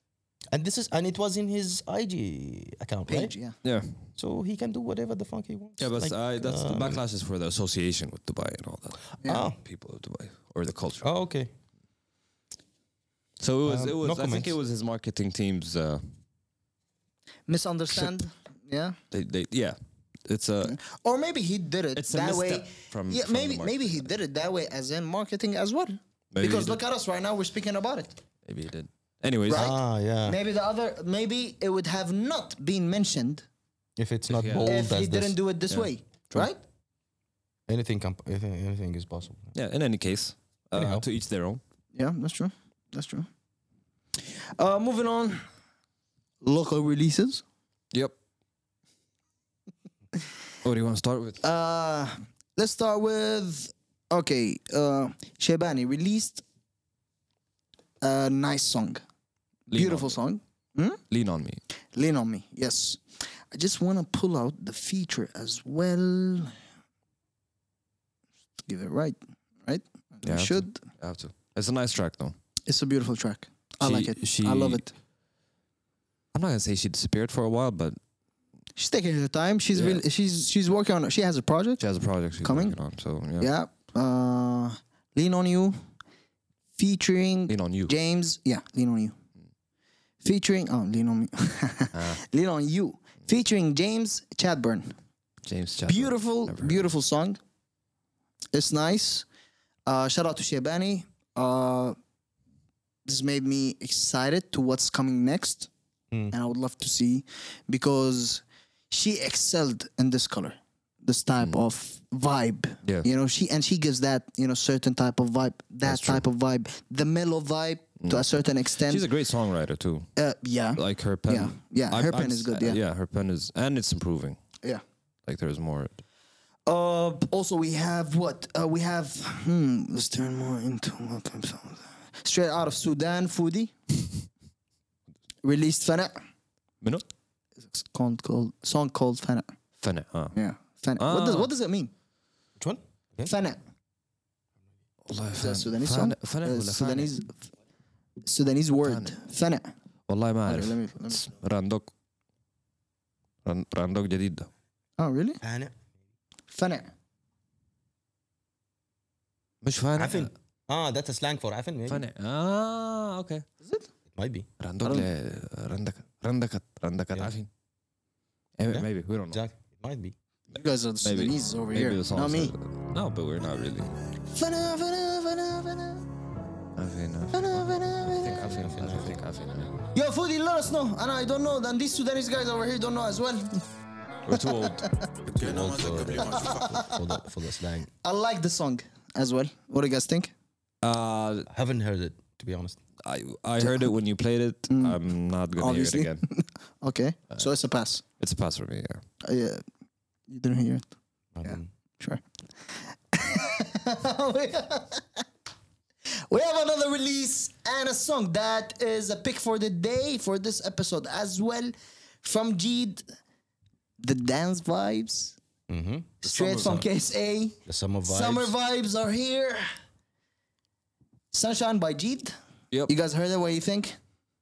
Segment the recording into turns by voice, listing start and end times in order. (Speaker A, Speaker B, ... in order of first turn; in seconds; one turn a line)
Speaker A: 0.5-3.3
Speaker B: 3.1-3.5
Speaker C: 3.6-3.9
Speaker A: 4.2-7.0
Speaker C: 5.8-11.1
Speaker A: 9.2-9.6
Speaker A: 11.0-11.5
Speaker C: 13.4-16.0
Speaker A: 13.7-14.5
Speaker B: 17.5-19.0
Speaker C: 19.1-19.8
Speaker C: 20.3-20.8
Speaker B: 20.6-28.1
Speaker C: 21.9-24.1
Speaker C: 26.3-26.8
Speaker C: 28.4-29.8
Speaker B: 29.5-33.5
Speaker A: 29.5-30.4
Speaker A: 34.0-35.4
Speaker C: 34.3-34.7
Speaker B: 34.6-36.6
Speaker C: 35.7-36.5
Speaker A: 37.7-39.5
Speaker C: 39.5-41.6
Speaker A: 40.7-41.0
Speaker B: 41.9-43.3
Speaker B: 44.3-45.4
Speaker B: 46.4-47.4
Speaker C: 50.6-51.4
Speaker B: 51.4-56.4
Speaker B: 58.0-59.0
Speaker C: 59.7-60.2
Speaker B: 59.7-61.0
Speaker C: 61.1-61.6
Speaker B: 61.9-66.5
Speaker B: 68.7-70.8
Speaker C: 70.2-72.3
Speaker B: 72.7-74.9
Speaker C: 73.8-74.8
Speaker C: 76.3-78.0
Speaker B: 78.8-81.8
Speaker C: 79.7-80.0
Speaker C: 81.8-83.5
Speaker B: 82.4-82.8
Speaker B: 83.4-85.8
Speaker B: 86.8-89.1
Speaker C: 87.5-87.9
Speaker B: 90.2-94.9
Speaker C: 91.9-92.2
Speaker C: 95.5-96.9
Speaker B: 95.9-97.4
Speaker B: 98.5-99.3
Speaker B: 99.8-102.0
Speaker B: 103.0-105.7
Speaker B: 106.3-119.0
Speaker C: 115.8-116.2
Speaker C: 118.8-120.1
Speaker B: 120.2-122.8
Speaker C: 120.8-124.4
Speaker C: 125.2-126.0
Speaker B: 126.7-133.7
Speaker B: 135.4-136.1
Speaker B: 137.7-139.5
Speaker C: 139.8-140.3
Speaker B: 140.3-141.9
Speaker C: 141.0-141.5
Speaker A: 142.6-143.3
Speaker B: 143.2-143.6
Speaker C: 145.1-147.1
Speaker B: 145.3-147.3
Speaker B: 148.2-149.7
Speaker C: 148.8-149.1
Speaker C: 150.1-151.9
Speaker B: 150.4-151.3
Speaker C: 153.4-154.5
Speaker B: 155.0-155.4
Speaker A: 155.4-155.7
Speaker B: 156.5-156.9
Speaker C: 159.6-160.3
Speaker A: 159.9-162.0
Speaker C: 161.9-163.4
Speaker B: 163.6-163.9
Speaker A: 164.1-164.5
Speaker C: 164.6-167.5
Speaker C: 168.6-169.4
Speaker A: 168.7-170.1
Speaker B: 170.5-172.5
Speaker C: 171.0-173.9
Speaker B: 174.3-176.1
Speaker C: 176.8-179.7
Speaker B: 177.3-178.4
Speaker A: 178.5-179.2
Speaker B: 179.9-183.6
Speaker C: 184.3-186.0
Speaker B: 184.3-185.1
Speaker A: 185.3-187.9
Speaker B: 186.1-187.1
Speaker B: 188.0-190.3
Speaker C: 190.8-191.5
Speaker A: 191.5-192.8
Speaker C: 193.0-196.2
Speaker B: 193.6-193.9
Speaker B: 194.7-195.0
Speaker B: 195.6-198.0
Speaker C: 198.2-199.0
Speaker B: 199.2-199.6
Speaker B: 200.3-200.8
Speaker A: 201.3-201.7
Speaker B: 201.4-205.2
Speaker B: 206.2-213.0
Speaker B: 214.0-215.3
Speaker A: 215.7-216.1
Speaker C: 216.2-216.9
Speaker B: 216.2-219.7
Speaker A: 217.7-218.5
Speaker B: 221.3-222.3
Speaker B: 222.9-224.0